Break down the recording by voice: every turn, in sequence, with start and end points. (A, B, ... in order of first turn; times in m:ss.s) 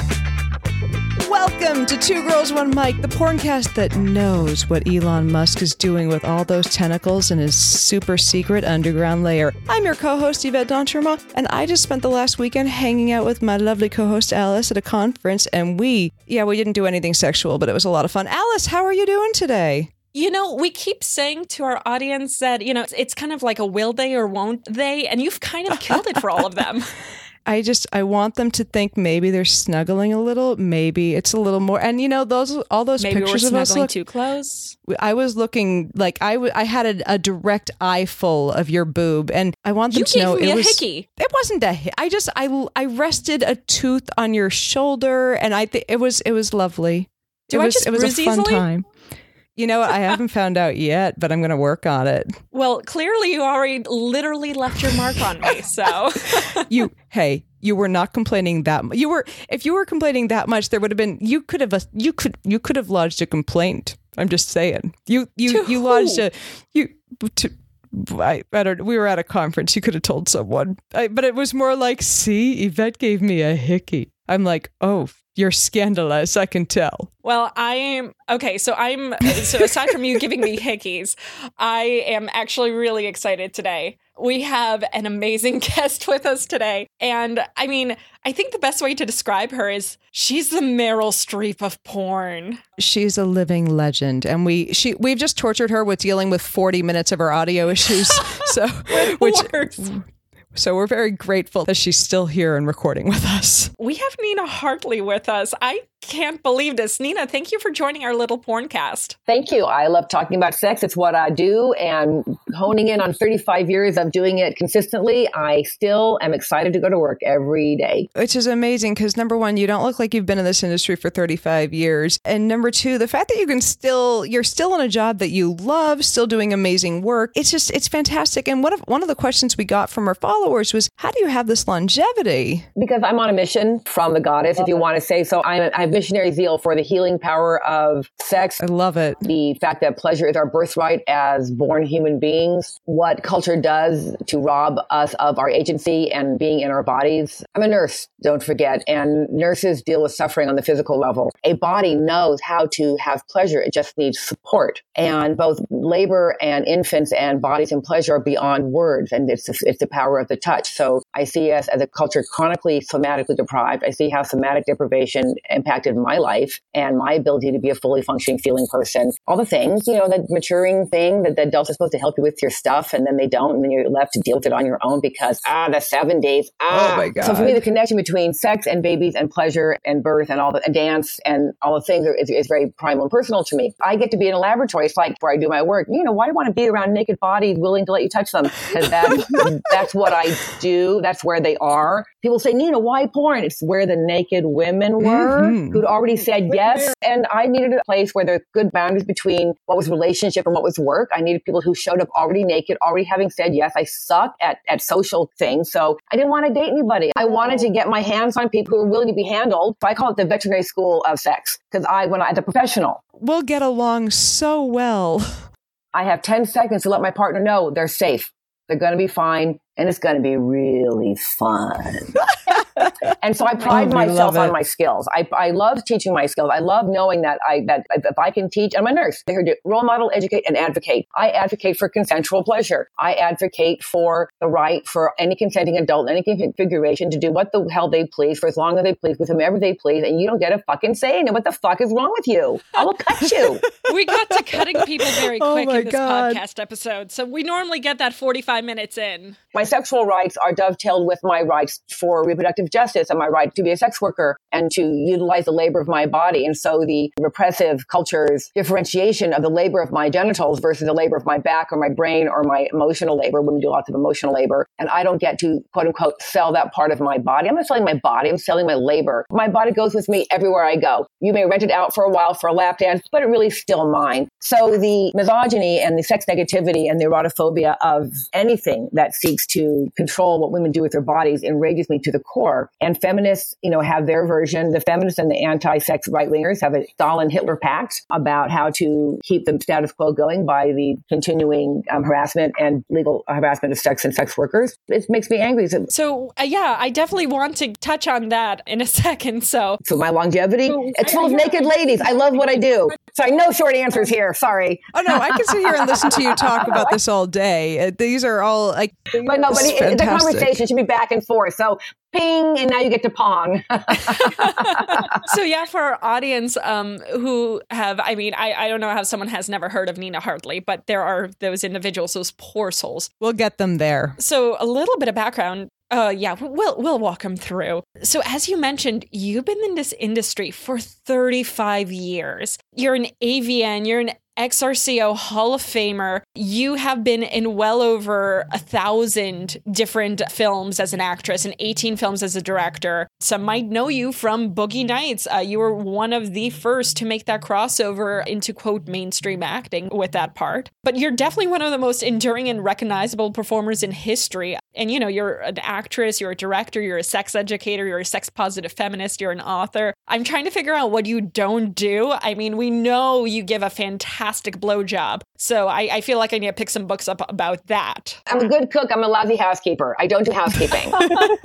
0:01.2-0:19.9 A
0:20.1-0:26.9 B
0:27.5-0:33.9 A
0:33.0-0:34.8 B
0:34.9-0:48.9 A
0:39.9-0:41.1 B
0:47.5-0:48.7 B
0:49.6-0:52.4 A
0:52.5-0:56.7 B
0:56.6-1:17.1 A
1:05.5-1:06.2 B
1:17.2-1:32.6 B
1:32.8-1:43.7 A
1:38.1-1:39.8 B
1:43.8-1:49.2 B
1:49.3-1:58.1 C
1:58.2-2:12.7 A
2:12.8-2:18.6 C
2:18.6-2:19.2 A
2:19.2-3:33.0 C
2:56.7-2:57.6 A
3:09.0-3:09.4 A
3:15.0-3:15.8 A
3:33.2-3:35.5 A
3:35.9-3:42.2 C
3:42.8-4:03.6 C
3:43.6-3:44.5 A
4:03.8-4:09.4 B
4:04.3-4:06.4 A
4:09.5-4:55.9 C
4:55.9-4:59.8 B
4:59.8-5:06.8 C
5:04.9-5:10.6 A
5:09.2-5:15.1 C
5:14.2-5:23.1 B
5:23.2-5:24.2 A
5:24.2-6:08.2 B
6:08.3-6:11.1 C